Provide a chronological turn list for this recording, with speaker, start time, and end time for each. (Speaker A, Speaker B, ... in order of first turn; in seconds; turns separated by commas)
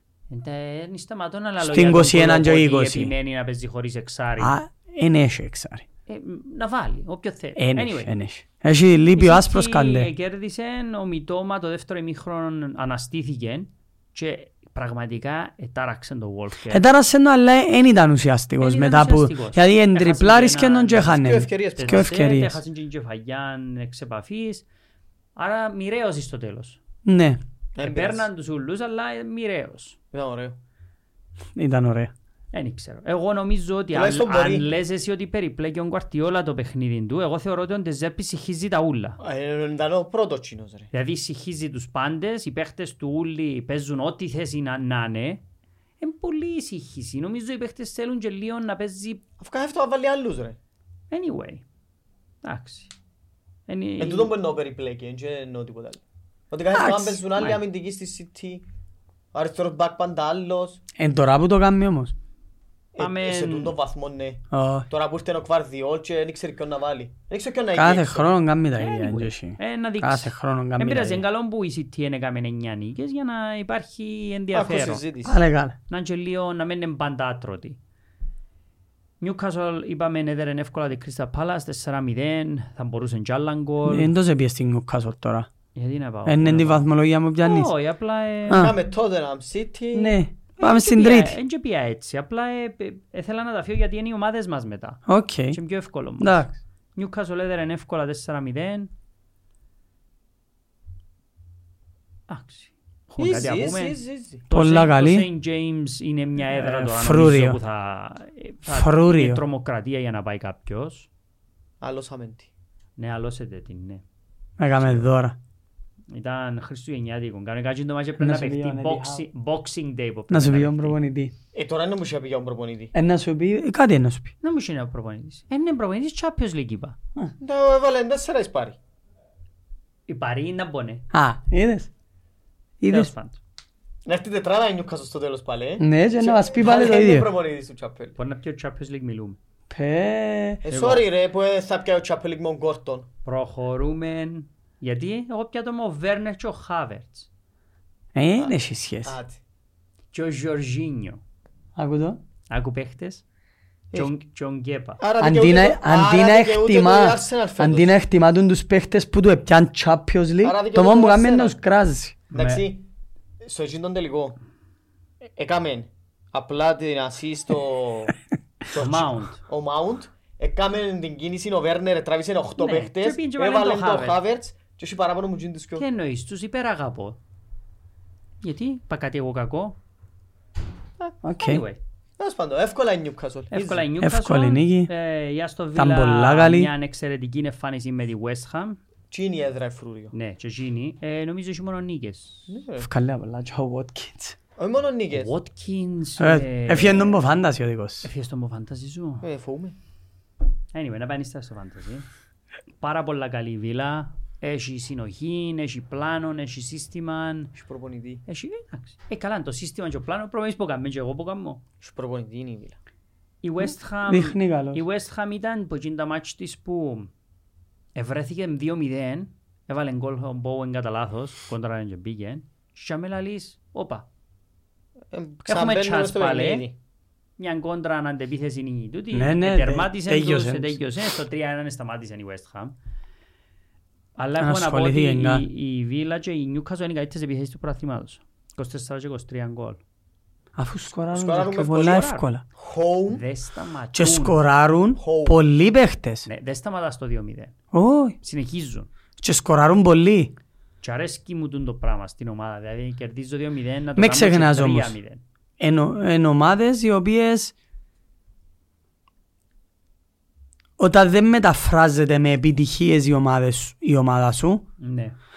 Speaker A: 0.3-4.5, Speaker B: 1.6-3.1, Speaker B: 4.4-5.8, Speaker A: 6.1-8.1, Speaker B: 7.5-10.1, Speaker A: 9.1-16.8, Speaker B: 16.7-22.6, Speaker A: 18.6-21.2, Speaker C: 21.1-22.1, Speaker A: 21.8-24.6, Speaker A: 25.4-26.8, Speaker B: 27.0-27.4, Speaker C: 27.8-28.2, Speaker A: 27.8-30.0, Speaker C: 30.1-30.6, Speaker B: 31.6-32.1, Speaker A: 32.5-39.2, Speaker C: 33.9-34.6, Speaker C: 39.2-40.9, Speaker A: 40.9-45.4, Speaker A: 46.0-49.2, Speaker C: 49.4-50.6, Speaker A: 51.1-51.6, Speaker A: 52.4-52.9, Speaker A: 53.7-54.3, Speaker C: 54.0-58.6, Speaker B: 56.7-57.6, Speaker C: 59.3-60.8, Speaker B: 61.0-62.1, Speaker C: 62.9-68.3, Speaker A: 63.0-63.8, Speaker B: 64.5-64.8, Speaker B: 67.7-71.2, Speaker A: 68.8-75.0, Speaker C: 74.5-75.4, Speaker B: 75.2-75.8, Speaker A: 75.9-77.8, Speaker A: 79.2-84.1, Speaker B: 83.8-85.5, Speaker A: 85.7-88.7, Speaker B: 86.2-87.7, Speaker B: 88.5-88.7, Speaker C: 88.5-90.2, Speaker B: 89.9-91.4, Speaker A: 90.6-96.4, Speaker B: 95.1-95.6, Speaker B: 96.2-96.5, Speaker A: 97.0-98.9, Speaker A: 102.3-104.0, Speaker C: 103.2-104.4, Speaker A: 104.5-111.1, Speaker B: 104.5-105.3, Speaker B: 106.5-107.6, Speaker B: 108.7-109.4, Speaker C: 111.8-112.5, Speaker A: 113.0-114.0, Speaker B: 114.6-115.3, Speaker A: 114.7-115.1, Speaker A: 116.1-121.0, Speaker B: 118.2-119.2, Speaker B: 120.3-121.3, Speaker C: 121.5-122.9, Speaker B: 122.9-124.3, Speaker A: 124.4-127.0, Speaker C: 127.4-128.8, Speaker A: 130.1-131.0, Speaker B: 131.1-131.9, Speaker B: 132.8-133.1, Speaker A: 132.9-133.4, Speaker C: 134.1-138.2, Speaker B: 135.8-137.3, Speaker A: 138.2-139.4, Speaker B: 139.7-140.6, Speaker C: 140.6-143.1, Speaker A: 140.7-141.0, Speaker A: 143.2-147.3, Speaker B: 148.1-149.2, Speaker C: 149.0-149.4, Speaker A: 150.1-151.2, Speaker B: 151.8-152.2, Speaker A: 152.5-153.2, Speaker A: 153.9-155.0, Speaker C: 155.0-157.9, Speaker B: 155.2-162.2, Speaker C: 160.4-161.6, Speaker A: 162.3-162.6, Speaker C: 162.3-162.8, Speaker C: 163.4-164.4, Speaker C: 165.4-168.1, Speaker C: 168.7-175.8, Speaker A: 168.8-169.4, Speaker A: 172.6-174.2, Speaker A: 175.8-177.2, Speaker A: 178.4-179.8, Speaker B: 181.2-181.6, Speaker A: 181.4-181.8, Speaker C: 182.2-183.9, Speaker A: 183.5-188.8, Speaker B: 184.0-184.9, Speaker B: 185.8-186.7, Speaker C: 189.1-190.1, Speaker A: 190.1-192.5, Speaker C: 192.5-192.9, Speaker B: 192.8-194.4, Speaker C: 194.6-195.3, Speaker A: 195.1-197.2, Speaker B: 196.2-198.1, Speaker A: 198.0-199.2, Speaker C: 199.2-199.8, Speaker A: 200.7-202.1, Speaker A: 202.8-207.5, Speaker C: 207.6-208.2, Speaker A: 208.2-211.6, Speaker C: 211.8-212.8, Speaker A: 213.4-217.1, Speaker B: 214.1-214.8, Speaker A: 217.9-224.1, Speaker C: 225.1-226.8, Speaker A: 225.5-226.7, Speaker A: 227.4-232.7, Speaker B: 229.1-230.8, Speaker A: 234.2-239.8, Speaker B: 234.4-235.4, Speaker B: 240.6-242.4, Speaker C: 241.1-243.2, Speaker A: 241.8-242.2, Speaker A: 243.1-244.4, Speaker B: 243.9-246.3, Speaker C: 245.0-245.4, Speaker A: 246.2-247.6, Speaker B: 247.7-248.2, Speaker A: 248.2-248.9, Speaker B: 249.2-250.3, Speaker A: 250.8-255.2, Speaker B: 253.9-254.9, Speaker B: 255.6-257.5, Speaker B: 260.8-264.6, Speaker A: 264.8-265.1